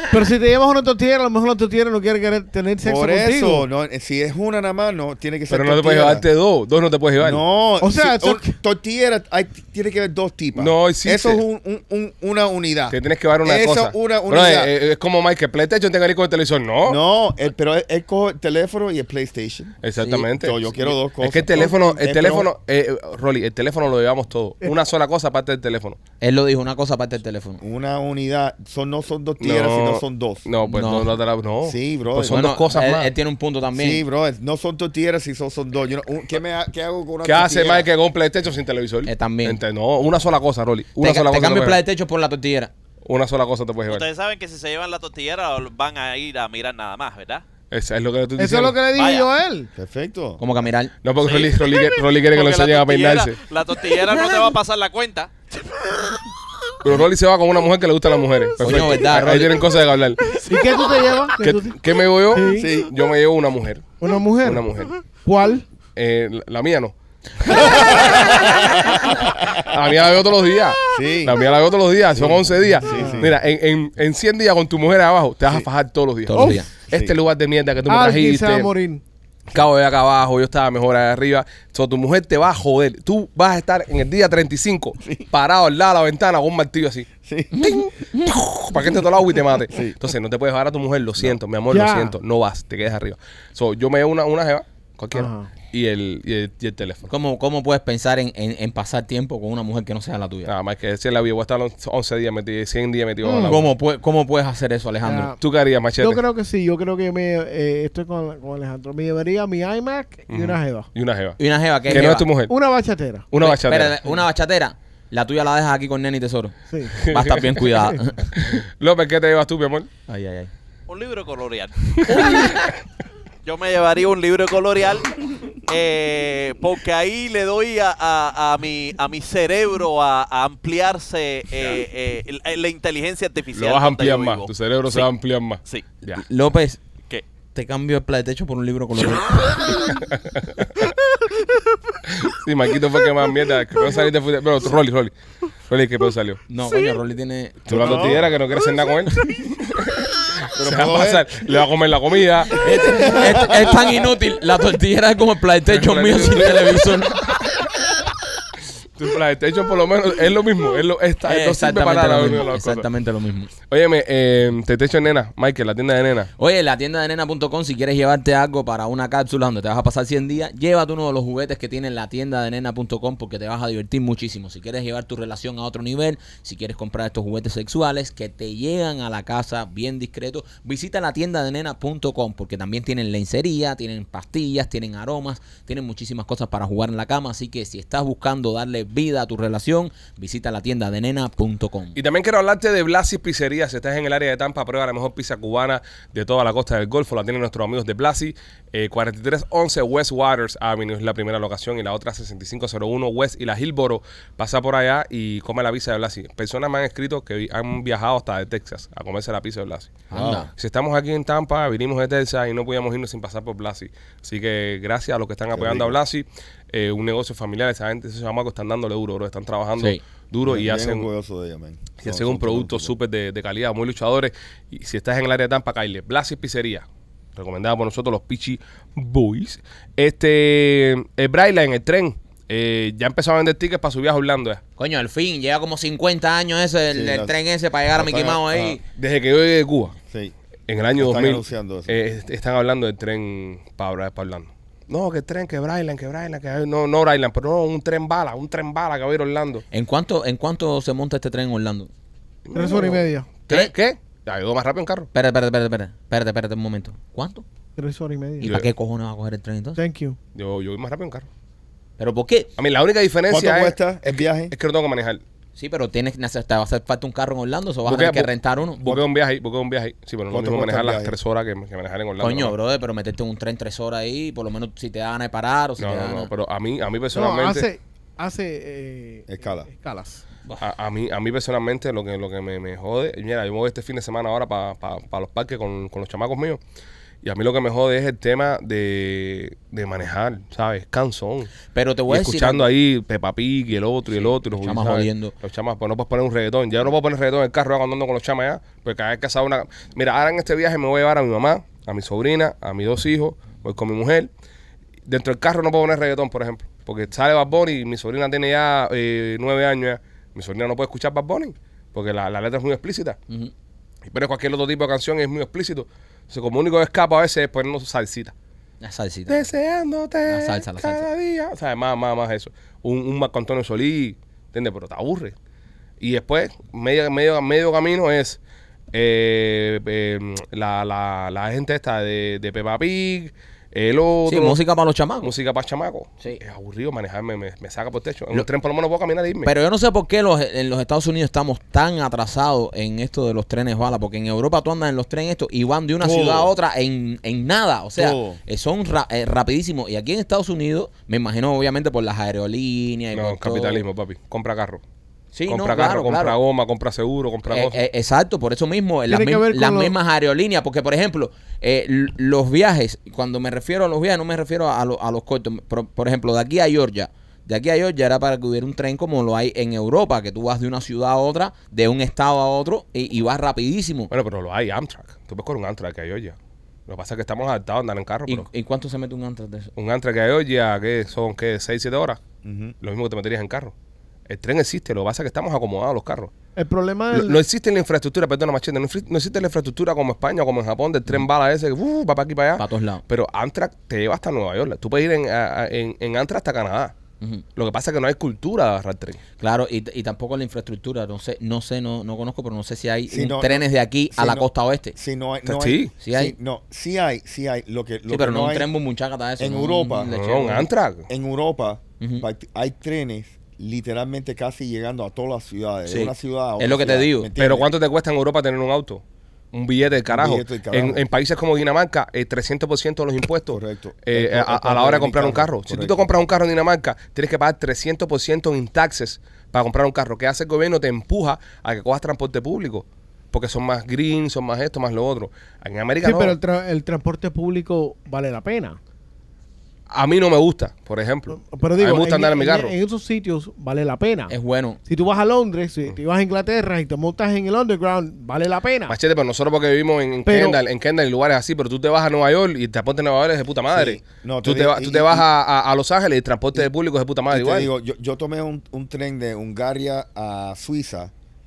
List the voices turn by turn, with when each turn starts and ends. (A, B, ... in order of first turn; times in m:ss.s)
0:00.1-0:03.6 A
0:02.8-0:06.2 B
0:05.5-0:07.4 C
0:07.2-0:14.7 B
0:07.8-0:08.6 A
0:10.5-0:11.4 C
0:12.9-0:17.0 C
0:16.8-0:19.8 B
0:19.8-0:26.0 C
0:20.0-0:20.3 D
0:20.3-0:22.5 B
0:26.2-0:27.6 D
0:27.6-0:30.4 B
0:29.4-0:33.1 C
0:30.6-0:31.1 D
0:31.6-0:32.5 B
0:32.2-0:34.0 D
0:33.7-0:37.9 B
0:37.2-0:41.8 C
0:39.0-0:39.6 D
0:41.0-0:42.7 D
0:43.0-0:44.0 C
0:43.9-0:47.4 E
0:47.7-0:48.8 C
0:48.4-0:49.7 A
0:48.9-0:49.3 E
0:49.8-0:50.4 B
0:50.4-0:50.9 D
0:51.0-0:53.4 C
0:51.2-0:56.2 E
0:56.8-1:00.4 C
0:58.6-0:59.6 D
1:00.4-1:01.8 A
1:01.4-1:05.0 C
1:02.3-1:02.8 A
1:02.5-1:02.9 B
1:04.0-1:05.6 A
1:06.0-1:18.7 C
1:07.6-1:09.6 B
1:10.9-1:11.4 B
1:12.1-1:13.3 B
1:12.9-1:13.3 A
1:16.3-1:16.7 D
1:16.3-1:16.6 A
1:17.9-1:19.0 A
1:19.5-1:27.1 C
1:25.0-1:25.2 B
1:27.2-1:27.5 B
1:27.5-1:28.9 D
1:27.7-1:37.1 C
1:29.7-1:30.0 B
1:31.7-1:32.1 A
1:35.1-1:35.5 A
1:37.1-1:40.5 D
1:40.4-1:43.7 C
1:43.2-1:43.6 A
1:43.4-1:45.3 D
1:45.0-1:45.4 A
1:45.4-1:46.2 C
1:46.0-1:50.9 A
1:50.3-1:51.4 C
1:51.4-1:52.3 D
1:51.9-1:53.2 A
1:51.9-1:52.5 C
1:53.3-1:54.0 C
1:53.4-1:58.3 D
1:56.7-1:57.0 A
1:57.0-1:57.5 C
1:57.7-1:58.0 A
1:58.3-1:59.9 C
2:00.1-2:00.5 D
2:00.9-2:02.7 E
2:01.9-2:02.5 C
2:03.4-2:15.0 E
2:13.5-2:16.2 C
2:16.1-2:16.8 D
2:17.5-2:20.0 D
2:20.1-2:20.8 C
2:22.1-2:25.1 C
2:25.7-2:26.4 C
2:26.5-2:28.2 D
2:27.7-2:33.2 C
2:27.7-2:28.2 B
2:30.5-2:31.6 B
2:32.5-2:33.9 B
2:32.5-2:37.3 D
2:35.7-2:37.7 C
2:39.0-2:42.8 C
2:41.2-2:43.5 D
2:43.7-2:46.3 C
2:46.4-3:12.0 D
3:12.0-3:41.1 C
3:30.1-3:30.5 D
3:30.1-3:30.4 B
3:35.5-3:36.0 B
3:40.4-3:42.9 B
3:42.0-3:46.8 C
3:47.4-3:54.6 C
3:54.8-3:58.8 D
3:56.9-3:57.4 B
3:57.9-3:58.8 B
3:58.9-4:00.0 C
4:00.7-4:09.6 C
4:01.0-4:02.0 B
4:09.7-4:11.9 D
4:12.4-4:15.1 C
4:12.5-4:13.3 A
4:15.1-4:17.4 D
4:17.8-4:18.5 A
4:18.4-4:19.8 D
4:18.4-4:18.7 C
4:19.8-4:20.2 A
4:20.3-4:21.3 C
4:22.0-4:22.5 D
4:22.6-4:25.2 C
4:23.3-4:24.5 B
4:25.6-4:28.8 D
4:27.8-4:32.5 C
4:30.3-4:31.1 B
4:32.2-4:36.3 D
4:35.8-4:37.6 C
4:37.1-4:40.2 A
4:39.3-4:39.7 B
4:40.6-4:46.6 C
4:47.2-4:51.5 C
4:51.7-4:52.7 D
4:52.1-5:04.3 C
4:54.1-4:55.3 D
5:05.0-5:13.2 C
5:14.1-5:18.3 C
5:18.8-5:19.5 D
5:19.3-5:25.3 C
5:20.2-5:21.1 D
5:26.0-5:28.4 C
5:28.9-5:34.6 C
5:34.2-5:35.3 D
5:35.2-5:39.5 C
5:39.4-5:53.8 D
5:46.0-5:46.5 B
5:48.0-5:48.4 B
5:53.1-5:54.8 C
5:55.3-5:56.4 D
5:55.5-5:57.8 C
5:57.5-6:14.1 D
5:59.1-5:59.9 A
6:14.1-6:16.4 C
6:16.9-6:18.5 C
6:18.3-6:19.7 D
6:19.8-6:22.2 C
6:22.4-6:22.7 B
6:22.8-6:23.7 C
6:24.3-6:26.3 C
6:26.6-6:27.4 A
6:27.1-6:36.9 C
6:32.6-6:33.0 D
6:37.6-6:39.2 C
6:39.4-6:45.0 D
6:43.1-6:48.7 B
6:45.4-6:45.9 C
6:46.0-6:46.3 D
6:48.1-6:50.7 D
6:49.4-6:50.1 B
6:50.1-6:51.1 C
6:51.1-6:57.7 B
6:55.8-6:57.3 D
6:57.4-6:59.0 C
6:59.5-7:16.4 C
7:00.1-7:01.0 B
7:03.5-7:06.1 B
7:16.0-7:18.8 A
7:19.9-7:22.7 C
7:21.3-7:24.3 A
7:24.3-7:24.8 D
7:24.8-7:29.0 A
7:28.9-7:37.7 C
7:30.2-7:30.6 A
7:33.7-7:35.2 B
7:37.3-7:41.1 B